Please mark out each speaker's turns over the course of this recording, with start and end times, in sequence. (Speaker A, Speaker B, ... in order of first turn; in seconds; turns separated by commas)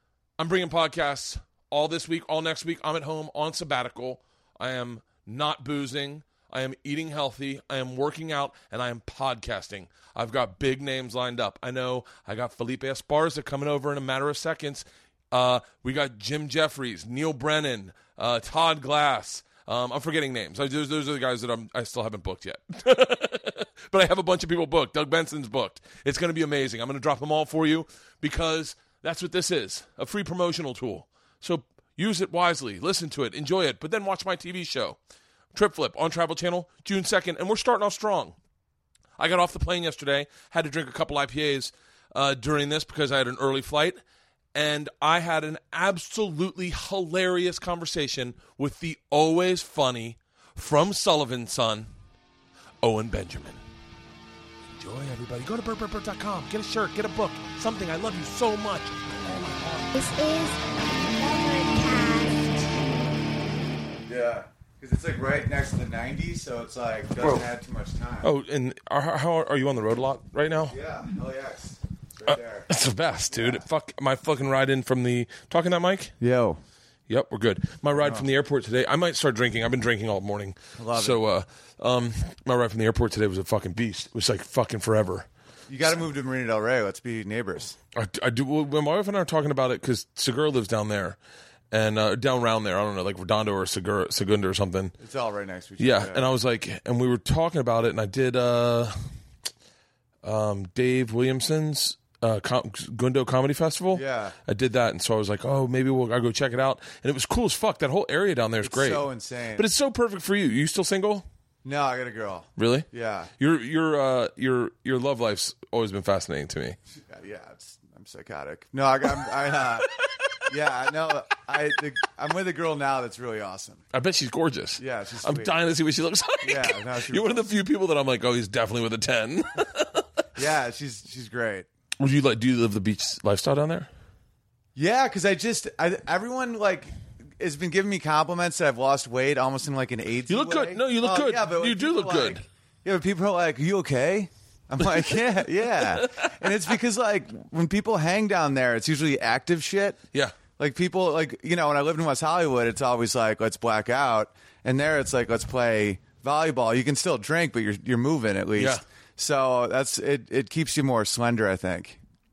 Speaker A: 0.4-35.0, Speaker A: 35.5-38.4, Speaker A: 39.2-44.0, Speaker A: 44.5-51.9, Speaker A: 52.8-53.6, Speaker A: 54.8-60.0, Speaker B: 60.0-62.8, Speaker C: 64.1-68.3, Speaker A: 68.2-70.8, Speaker C: 70.7-72.7, Speaker A: 72.2-76.1, Speaker C: 73.3-73.6, Speaker C: 76.2-76.6, Speaker A: 77.1-85.3, Speaker C: 78.0-78.2, Speaker C: 80.8-81.2, Speaker C: 85.7-87.8, Speaker A: 87.9-91.2, Speaker A: 91.7-94.9, Speaker C: 95.0-96.3, Speaker A: 95.8-98.9, Speaker A: 100.2-109.0, Speaker C: 103.9-104.3, Speaker C: 108.6-109.7, Speaker A: 109.5-111.2, Speaker C: 111.6-113.3, Speaker A: 112.6-112.9, Speaker A: 113.4-116.8, Speaker C: 117.0-119.9, Speaker A: 120.0-120.4, Speaker C: 120.5-123.8, Speaker A: 123.9-130.1, Speaker C: 124.8-125.5, Speaker C: 126.4-127.4, Speaker C: 130.3-131.7, Speaker A: 132.0-133.9, Speaker C: 134.8-150.0, Speaker A: 140.3-142.4, Speaker A: 145.9-146.4, Speaker C: 150.6-162.0, Speaker A: 158.6-158.8